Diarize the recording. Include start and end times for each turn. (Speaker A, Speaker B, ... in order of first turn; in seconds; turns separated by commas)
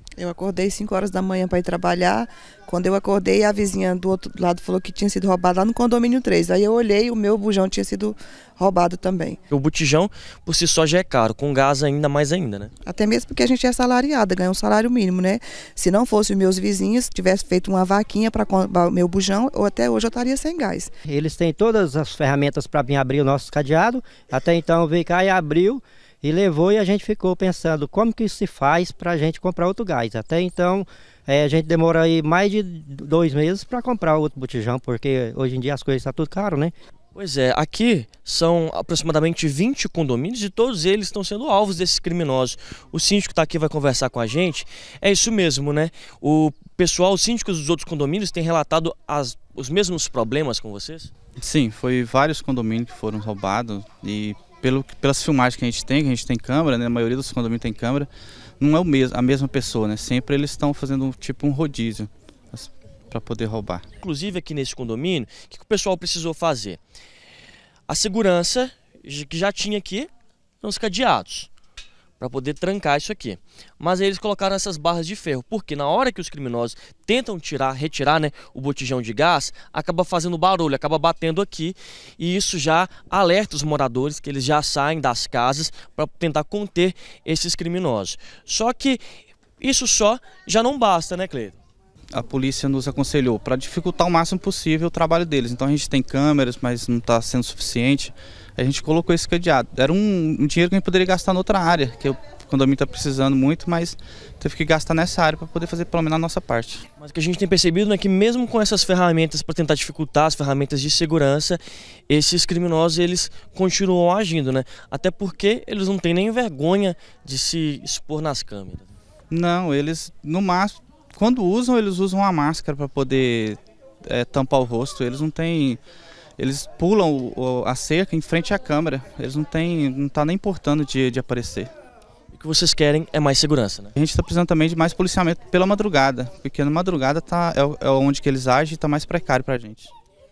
Speaker A: 0.2-9.4, Speaker B: 9.5-12.7, Speaker A: 12.9-20.9, Speaker C: 21.1-36.7, Speaker B: 37.1-51.1, Speaker D: 51.4-58.1, Speaker D: 58.6-63.8, Speaker B: 64.0-66.8, Speaker B: 67.9-70.1, Speaker B: 70.6-71.5, Speaker B: 72.2-89.0, Speaker B: 89.6-91.6, Speaker D: 92.1-106.8, Speaker B: 107.0-118.9, Speaker D: 119.3-125.8, Speaker D: 126.4-131.7, Speaker B: 132.3-133.9, Speaker D: 133.9-139.9